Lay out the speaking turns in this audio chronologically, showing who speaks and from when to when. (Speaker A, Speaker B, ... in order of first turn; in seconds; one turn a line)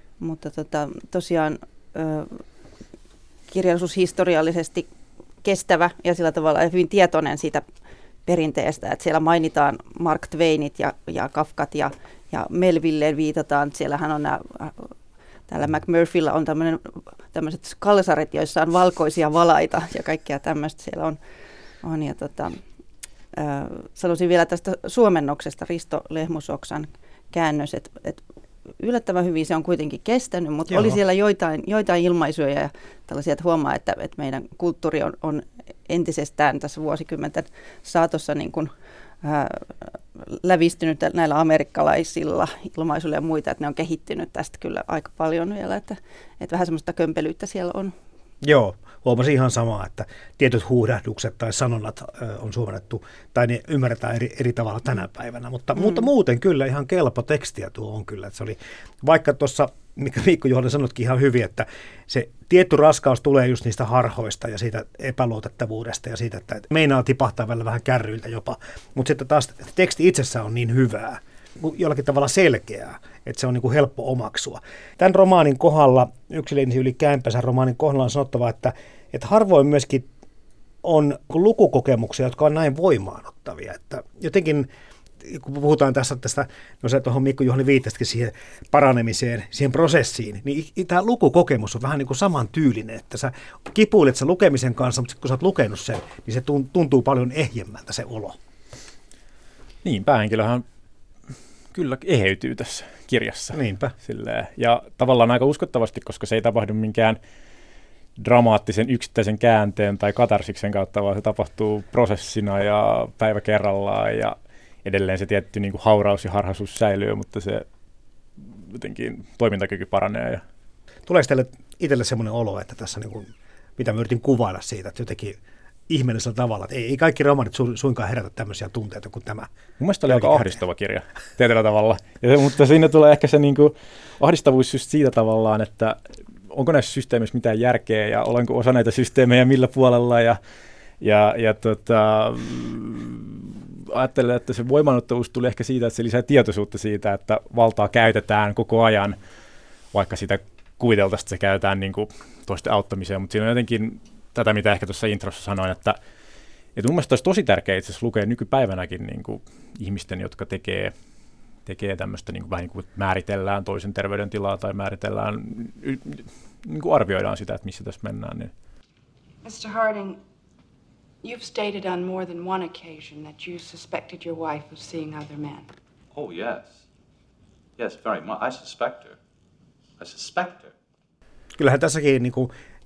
Speaker A: 0.2-2.4
Speaker A: 3.5-4.9
Speaker A: 5.4-7.6
Speaker A: 8.2-14.9
Speaker A: 15.5-21.2
Speaker A: 21.8-22.6
Speaker A: 23.3-28.2
Speaker A: 28.8-38.7
Speaker B: 30.7-31.0
Speaker A: 39.2-47.9
Speaker B: 48.4-80.1
Speaker B: 80.8-84.7
Speaker B: 85.2-98.4
Speaker C: 99.8-100.6
Speaker C: 101.7-107.2
Speaker B: 103.5-103.9
Speaker C: 108.2-117.7
Speaker C: 118.4-120.4
Speaker B: 121.1-129.5
Speaker C: 129.8-136.0
Speaker B: 130.1-130.6
Speaker C: 136.5-140.4
Speaker C: 141.0-149.2
Speaker C: 149.9-156.0
Speaker C: 156.8-160.9
Speaker C: 161.7-168.5
Speaker D: 169.4-170.2
Speaker D: 171.2-175.7
Speaker E: 176.1-176.8
Speaker E: 177.8-179.2
Speaker E: 180.0-180.7
Speaker B: 181.6-182.5